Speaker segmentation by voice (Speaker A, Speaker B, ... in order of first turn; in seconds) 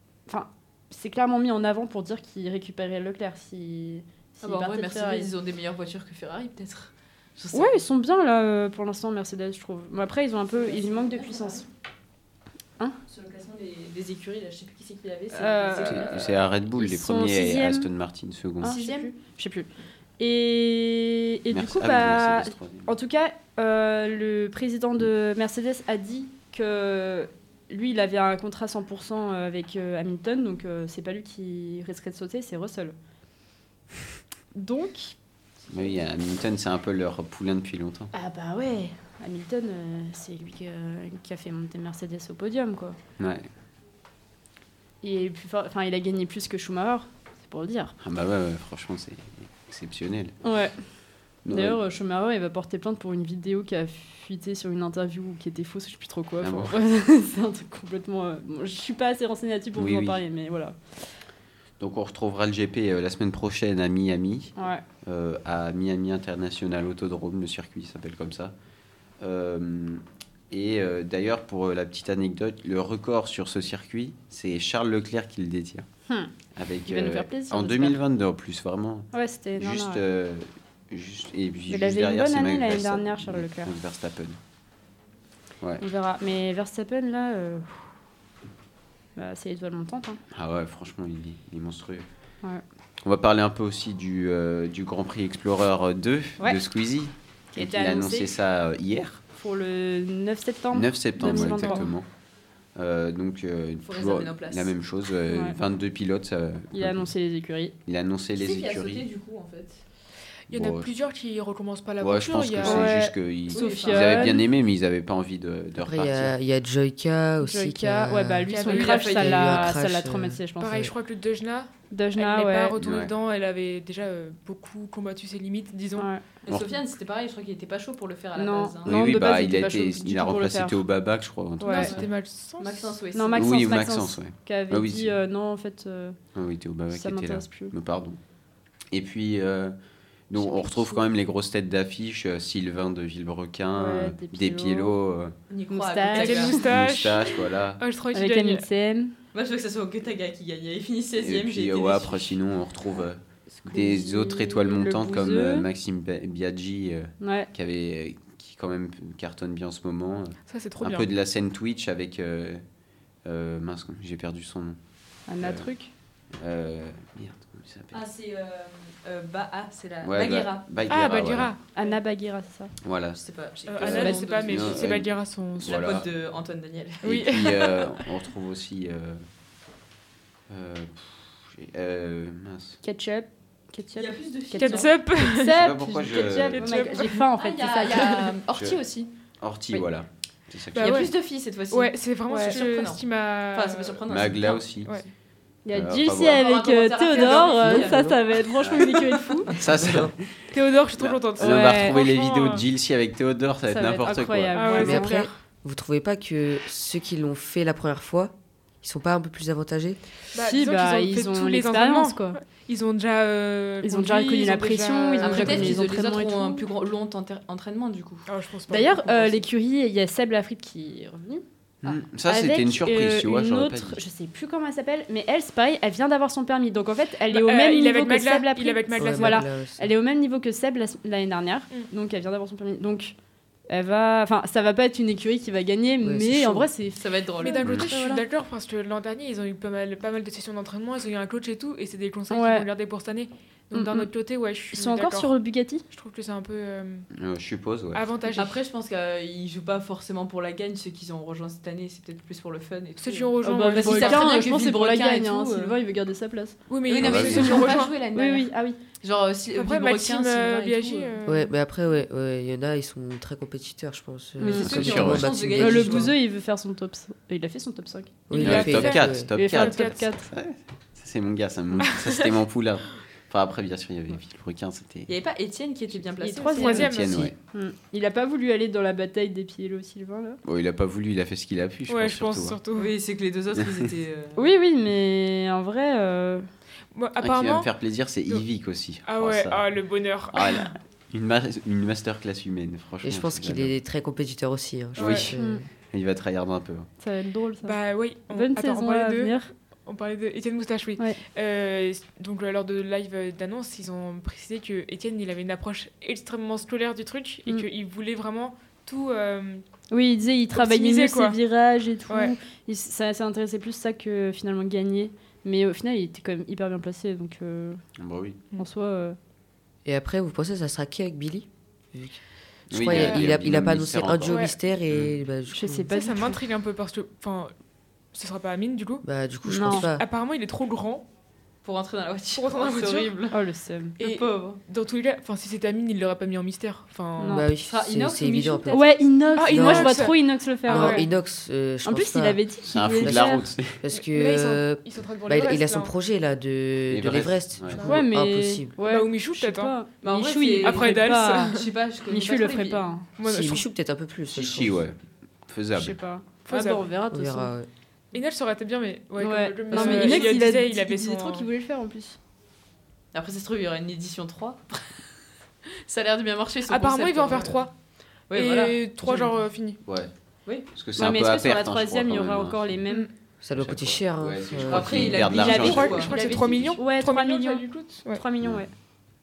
Speaker A: 0.3-5.3, 7.5-11.7, 15.3-17.9, 18.6-32.9, 34.5-35.1, 38.1-43.0, 45.0-48.0, 50.4-50.8, 51.5-60.8, 64.6-64.8, 76.1-76.3, 76.9-78.0, 79.1-80.0, 81.7-83.7, 85.8-87.8, 89.2-90.2, 97.5-98.3, 99.3-101.9, 105.3-105.6, 106.7-107.8, 112.6-114.5, 117.4-120.9, 121.9-122.8, 126.0-126.2, 128.4-130.8, 131.6-131.9, 133.1-136.2, 136.9-137.7, 140.3-141.0, 143.8-145.0, 145.7-146.7, 148.1-149.1, 153.5-155.7, 157.2-157.5, 165.3-165.9, 171.8-172.7, 182.8-188.3, 192.3-192.6, 195.7-199.5, 201.4-202.0, 203.7-205.3, 210.4-212.4, 213.8-216.7, 218.7-221.4, 222.2-233.2, 233.7-237.0, 237.7-238.2, 242.3-242.7, 243.7-244.1, 244.7-245.8, 253.4-256.6, 257.7-258.8, 264.4-265.0, 265.6-268.8, 269.3-270.3, 276.2-280.4, 284.4-286.5, 295.4-295.6, 297.0-297.8, 298.3-299.5, 309.9-317.8, 318.6-319.2, 325.5-326.4, 329.5-329.9, 333.3-333.9, 337.2-337.5, 338.7-341.1, 341.9-343.5, 347.8-351.6, 352.1-353.1, 355.8-357.5, 359.2-362.2, 371.0-373.1, 375.4-378.7
Speaker B: 4.4-7.8, 10.5-11.7, 13.1-16.4, 18.6-19.1, 103.8-104.7, 108.4-109.8, 113.5-114.4, 118.6-119.7, 126.5-129.0, 131.7-132.1, 132.6-133.6, 145.5-146.6, 149.3-152.4, 167.9-170.7, 173.2-174.9, 175.6-177.3, 183.9-184.9, 186.7-189.1, 190.8-195.0, 196.1-199.6, 215.2-218.3, 237.0-237.9, 248.3-255.8, 256.9-261.1, 264.4-266.1, 275.1-277.0, 282.7-284.4, 331.6-333.4, 334.0-334.6, 337.6-339.0, 350.0-352.9, 359.7-360.4, 363.1-365.0, 365.9-367.7, 368.3-369.4, 374.6-376.6
Speaker C: 15.8-18.8, 21.5-22.9, 35.7-38.1, 43.2-43.5, 48.0-50.4, 51.5-51.8, 56.4-56.8, 59.8-60.2, 61.8-64.5, 65.0-68.5, 69.2-75.9, 76.5-84.4, 90.3-92.1, 93.0-99.2, 100.7-102.1, 102.8-107.1, 107.9-109.1, 110.5-110.9, 112.0-116.3, 122.8-123.1, 126.5-126.8, 128.8-132.0, 133.3-135.2, 136.3-138.2, 138.9-139.8, 140.3-145.3, 146.6-147.8, 151.2-162.6, 163.2-164.8, 165.4-165.7, 166.4-168.0, 170.0-171.6, 172.8-173.2, 173.8-176.1, 177.0-179.2, 180.5-182.8, 185.5-186.8, 188.5-188.8, 189.4-191.1, 194.1-194.9, 195.7-196.4, 198.6-198.9, 199.6-200.4, 201.0-204.8, 221.8-224.0, 247.1-248.1, 257.0-257.8, 264.6-265.4, 268.3-275.1, 276.8-277.4, 280.4-282.6, 287.2-289.6, 290.3-293.7, 295.0-295.3, 295.9-296.9, 318.0-318.4, 322.7-325.2, 342.7-343.8, 346.9-347.8, 354.3-356.0, 369.8-370.1, 370.7-372.8, 373.6-376.8
Speaker D: 101.3-101.7, 110.5-113.0, 118.5-119.0, 120.6-126.1, 131.7-133.0, 146.1-148.7, 160.5-161.1, 170.9-171.6, 173.7-175.8, 177.0-177.8, 184.6-185.6, 186.5-187.3, 187.9-188.2, 190.8-191.1, 191.7-194.0, 200.5-202.7, 204.6-205.3, 210.3-215.8, 218.3-219.4, 227.3-229.5, 237.4-245.3, 245.9-247.1, 247.9-248.6, 253.0-254.5, 256.7-257.9, 259.6-261.5, 268.4-270.0, 271.9-272.2, 276.5-277.3, 281.9-282.9, 286.9-287.7, 289.1-290.7, 295.0-295.3, 297.6-309.6, 310.6-311.4, 312.1-312.4, 322.9-323.3, 324.3-324.5, 325.9-327.5, 328.1-329.1, 329.7-331.1, 332.4-333.1, 334.0-337.4, 339.4-341.1, 343.9-345.9, 348.8-349.7, 350.6-351.7, 353.2-353.7, 356.5-356.9, 358.1-361.5, 366.7-367.7, 368.3-369.8, 375.3-378.2
Speaker E: 115.8-120.9, 197.6-198.2, 199.7-200.1, 204.8-210.0, 229.0-229.9, 236.0-236.7, 261.3-266.1, 268.3-269.3, 293.0-295.6, 319.9-322.2, 322.7-325.9, 329.0-330.0, 337.3-338.8, 339.5-340.1, 340.7-342.4, 343.0-343.3, 343.8-348.7, 353.2-354.8, 357.1-357.7, 373.4-375.2